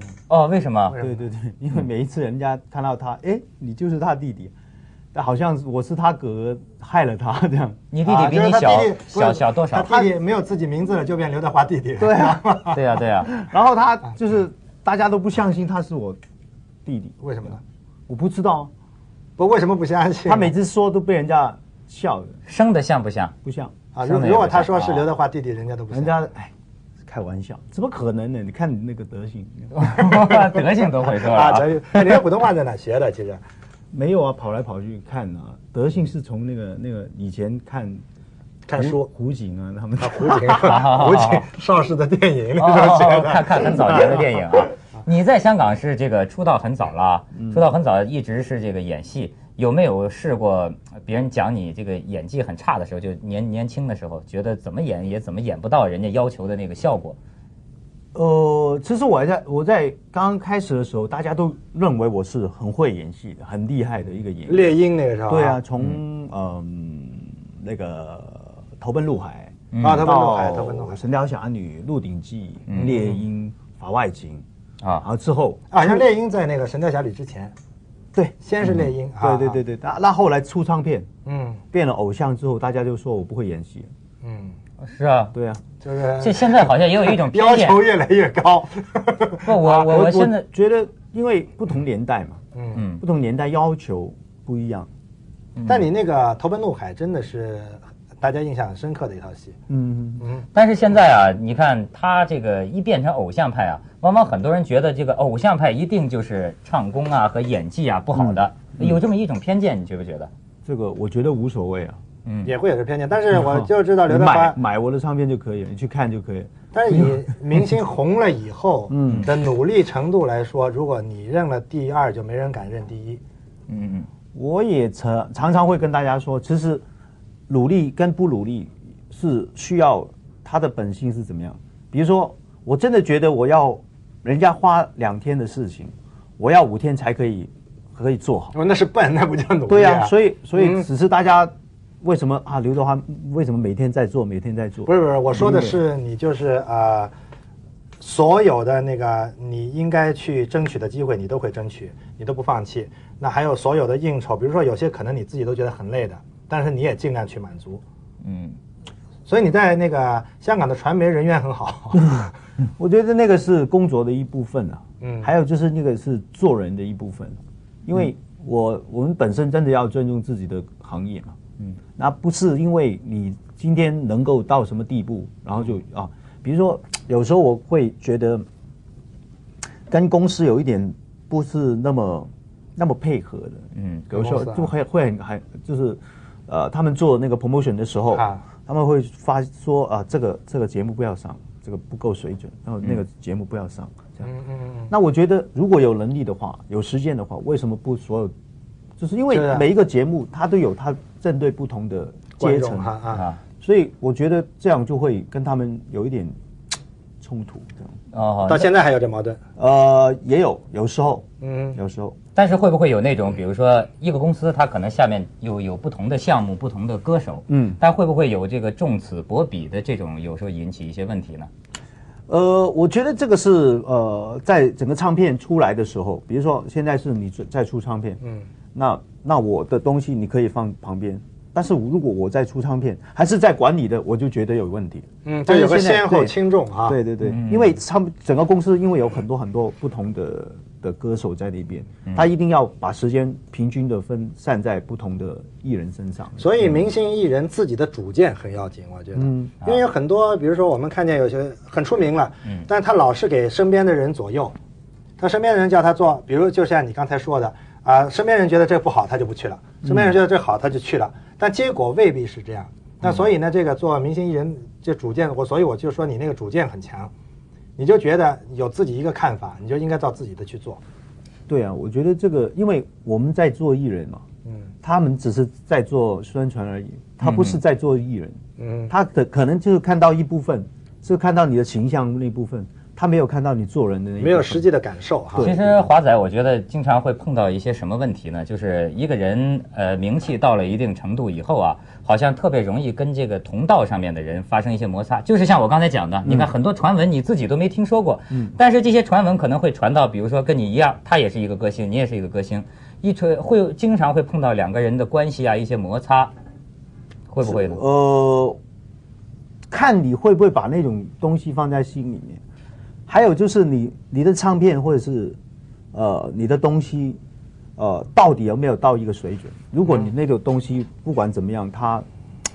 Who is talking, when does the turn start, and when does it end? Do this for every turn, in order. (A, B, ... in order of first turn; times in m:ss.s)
0:00.3-0:01.0 A
0:01.0-0:04.5 B
0:05.1-0:07.8 B
0:07.9-0:10.1 A
0:08.0-0:12.8 C
0:12.0-0:12.5 B
0:12.7-0:13.3 A
0:13.3-0:16.2 B
0:16.8-0:17.2 B
0:17.2-0:17.6 C
0:18.1-0:18.7 B
0:19.4-0:20.5 C
0:20.2-0:22.4 B
0:22.5-0:23.3 A
0:23.4-0:23.8 B
0:23.9-0:26.2 C
0:24.0-0:25.0 A
0:25.9-0:26.5 B
0:27.0-0:30.0 B
0:29.7-0:32.2 A
0:31.0-0:33.4 C
0:33.9-0:38.0 B
0:38.7-0:39.1 C
0:38.7-0:40.8 B
0:40.0-0:44.2 C
0:40.6-0:41.5 A
0:42.6-0:57.2 A
0:42.7-0:44.0 B
0:47.3-0:47.6 B
0:58.1-1:04.7 B
1:04.5-1:05.6 C
1:05.3-1:14.4 B
1:09.7-1:10.1 A
1:09.8-1:11.0 C
1:12.7-1:13.1 A
1:12.8-1:13.1 C
1:15.0-1:16.0 B
1:15.7-1:17.5 C
1:18.4-1:19.6 C
1:19.2-1:21.1 B
1:21.2-1:21.6 C
1:21.7-1:23.9 B
1:24.2-1:24.6 C
1:24.8-1:25.3 A
1:25.3-1:25.6 B
1:25.8-1:29.5 C
1:26.2-1:27.8 A
1:29.4-1:30.5 A
1:29.6-1:32.4 B
1:32.5-1:32.8 C
1:32.7-1:33.0 A
1:33.0-1:34.9 B
1:35.6-1:35.9 A
1:35.7-1:39.6 C
1:39.7-1:40.2 B
1:40.2-1:40.4 C
1:40.5-1:50.3 A
1:48.1-1:49.0 B
1:50.6-1:52.0 B
1:52.2-1:52.5 A
1:52.4-1:54.6 C
1:53.3-1:57.1 B
1:56.7-2:03.2 C
1:58.9-1:59.3 B
2:03.7-2:04.1 A
2:04.3-2:06.8 B
2:07.5-2:18.5 B
2:18.5-2:20.8 C
2:19.7-2:25.8 B
2:24.8-2:27.1 C
2:28.0-2:37.8 C
2:38.2-2:38.6 A
2:39.3-2:42.3 C
2:42.8-2:51.4 B
2:45.0-2:45.3 C
2:52.0-2:58.4 B
2:59.9-3:14.3 B
3:03.7-3:04.1 A
3:04.1-3:04.7 C
3:08.1-3:08.4 C
3:14.2-3:14.9 C
3:14.9-3:18.3 B
3:19.0-3:23.0 B
3:19.3-3:19.6 C
3:22.4-3:23.2 C
3:23.1-3:23.4 A
3:23.6-3:26.3 B
3:27.2-3:27.8 B
3:28.1-3:28.7 A
3:28.5-3:29.4 C
3:29.6-3:32.2 B
3:31.4-3:31.8 C
3:32.3-3:41.5 A
3:37.5-3:37.8 B
3:42.3-3:48.2 B
3:48.2-3:48.5 C
3:48.7-3:56.3 B
3:55.2-3:57.0 C
3:56.9-4:06.4 B
3:57.2-3:57.8 A
4:06.4-4:14.5 C
4:09.1-4:09.5 B
4:15.2-4:27.1 C
4:19.8-4:20.1 B
4:27.8-4:30.8 C
4:31.5-4:34.2 B
4:34.8-4:38.4 B
4:37.2-4:37.6 A
4:38.6-4:38.9 C
4:38.9-4:44.6 B
4:44.2-4:45.5 C
4:45.3-4:45.8 B
4:45.4-5:06.3 A
4:56.2-4:56.5 B
5:07.3-5:07.8 A
5:07.4-5:08.6 B
5:09.7-5:12.4 B
5:13.1-5:15.4 B
5:15.9-5:17.2 B
5:17.8-5:22.0 B
5:19.8-5:20.1 C